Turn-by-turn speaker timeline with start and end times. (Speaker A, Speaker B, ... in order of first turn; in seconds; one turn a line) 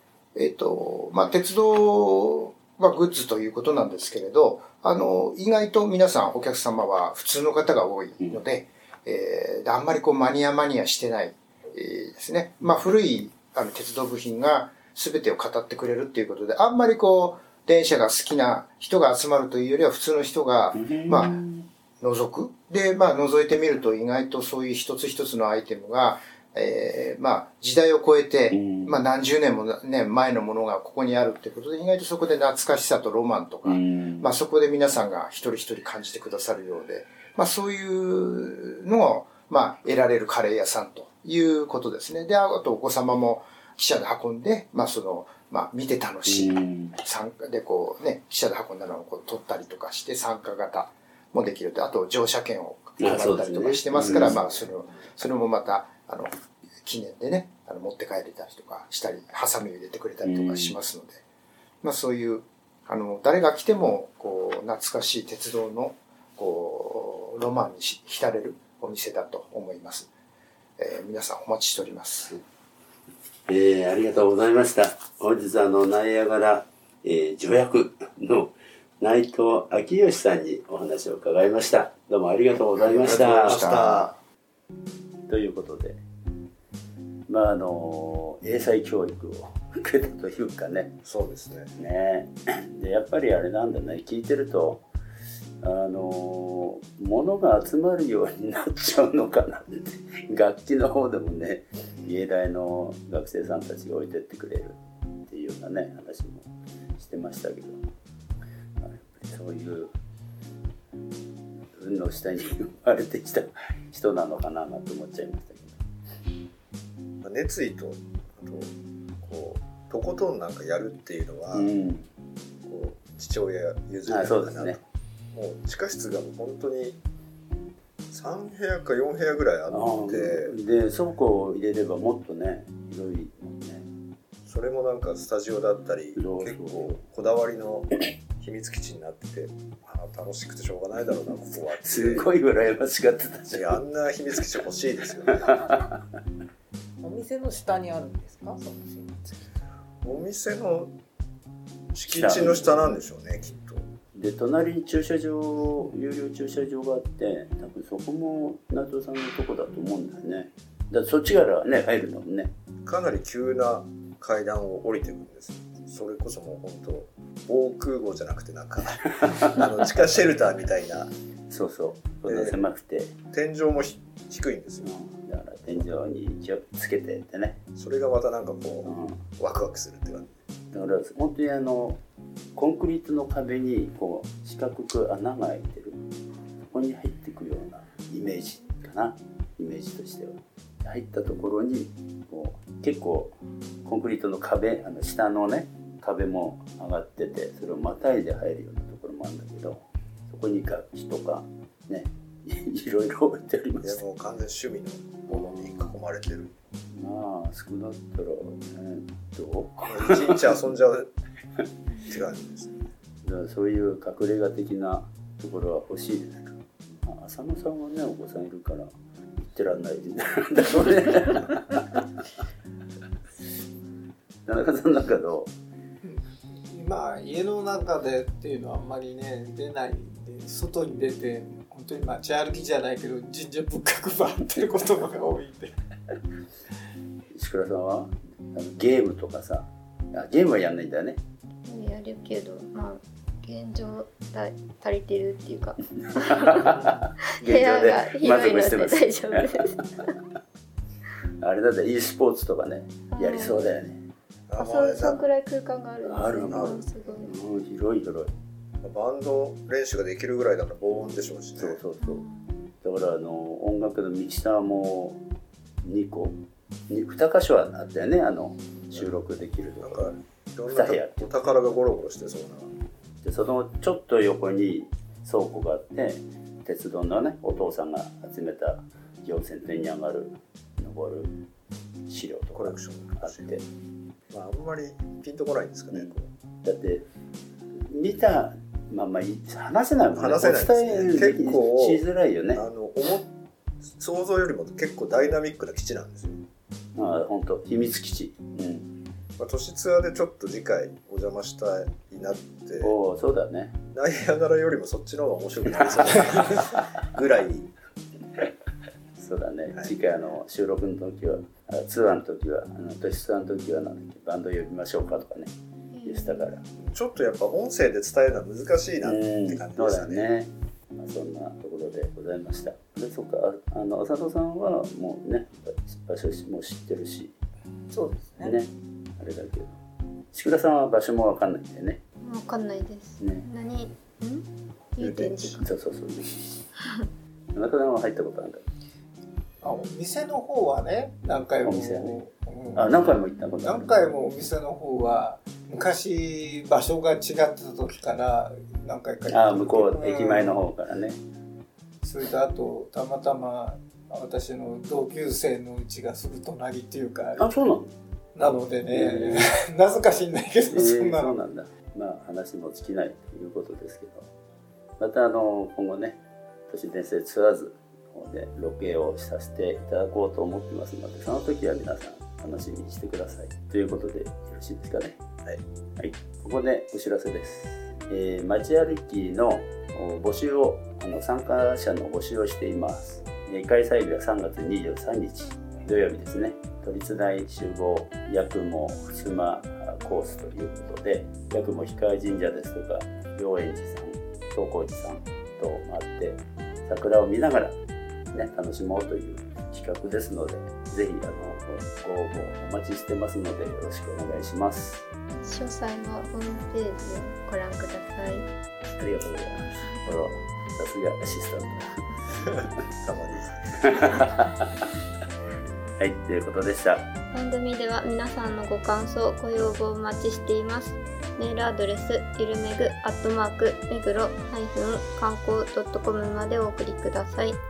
Speaker A: 0.3-21.4
Speaker B: 20.7-21.6
Speaker A: 22.0-56.3
Speaker B: 28.5-29.0
Speaker B: 33.6-34.3
Speaker B: 46.2-46.9
Speaker B: 53.0-54.4
Speaker A: 56.8-61.2
Speaker B: 60.2-60.8
Speaker A: 61.8-70.1
Speaker A: 70.8-72.4
Speaker B: 73.5-83.6
Speaker A: 82.8-84.2
Speaker C: 83.0-84.1
Speaker B: 85.3-86.0
Speaker B: 87.3-91.0
Speaker C: 91.0-91.7
Speaker B: 91.8-94.8
Speaker B: 95.6-107.8
Speaker B: 108.8-109.9
Speaker B: 111.8-115.8
Speaker C: 117.2-121.7
Speaker B: 121.5-122.1
Speaker C: 122.7-124.8
Speaker B: 124.1-124.8
Speaker C: 125.3-127.0
Speaker C: 128.1-130.5
Speaker B: 129.7-133.9
Speaker C: 134.5-142.3
Speaker B: 136.2-137.0
Speaker B: 141.8-143.8
Speaker C: 143.5-145.7
Speaker B: 145.5-146.0
Speaker D: 147.0-149.0
Speaker C: 150.0-150.9
Speaker C: 151.9-153.8
Speaker B: 152.1-152.9
Speaker B: 154.1-162.5
Speaker C: 162.8-171.1
Speaker B: 169.1-170.0
Speaker B: 171.5-173.1
Speaker C: 172.3-172.6
Speaker C: 173.3-174.9
Speaker B: 174.8-177.6
Speaker C: 177.8-180.3
Speaker B: 178.8-179.2
Speaker B: 180.7-182.0
Speaker B: 182.5-186.0
Speaker B: 186.6-204.0
Speaker C: 203.8-206.5
Speaker B: 205.3-205.9
Speaker B: 206.9-210.5
Speaker C: 209.8-211.1
Speaker C: 212.0-212.8
Speaker B: 213.2-222.0
Speaker B: 224.4-225.5
Speaker E: 226.0-235.7
Speaker B: 237.3-241.2
Speaker F: 241.7-250.1
Speaker B: 246.1-249.8
Speaker B: 251.4-254.0
Speaker F: 253.1-253.7
Speaker C: 254.5-255.2
Speaker F: 254.6-257.4
Speaker B: 256.0-258.3
Speaker C: 256.5-256.8
Speaker C: 258.8-261.8
Speaker B: 261.6-262.2
Speaker F: 262.0-262.5
Speaker B: 262.8-265.2
Speaker B: 265.8-266.4
Speaker B: 266.9-270.1
Speaker C: 269.8-272.7
Speaker B: 270.7-271.3
Speaker B: 273.2-281.3
Speaker B: 282.1-283.6
Speaker C: 282.5-283.6
Speaker C: 284.3-286.3
Speaker B: 285.9-287.1
Speaker B: 287.8-292.6
Speaker C: 290.1-293.3
Speaker C: 294.0-296.4
Speaker B: 296.9-298.9
Speaker C: 299.4-302.9
Speaker B: 302.8-303.8
Speaker C: 303.9-307.7
Speaker B: 306.5-306.8
Speaker B: 309.2-315.5
Speaker F: 315.9-316.5
Speaker B: 316.0-316.6
Speaker C: 316.8-320.3
Speaker B: 319.0-327.3
Speaker E: 327.9-328.6
Speaker B: 328.4-329.8
Speaker B: 330.3-332.0
Speaker F: 332.2-335.7
Speaker B: 333.2-333.4
Speaker B: 335.0-336.6
Speaker B: 337.5-338.6
Speaker E: 339.6-350.6
Speaker B: 341.6-342.2
Speaker B: 342.7-344.2
Speaker B: 349.3-351.2
Speaker E: 352.0-357.5
Speaker B: 357.4-357.9
Speaker E: 358.3-361.4
Speaker B: 358.9-359.5
Speaker B: 360.7-364.3
Speaker B: 365.0-375.2
Speaker B: 376.0-397.8
Speaker B: 398.3-405.0
Speaker F: 405.4-408.5
Speaker B: 408.9-411.9
Speaker C: 413.0-414.1
Speaker B: 413.8-414.7
Speaker B: 416.0-417.1
Speaker F: 417.3-427.6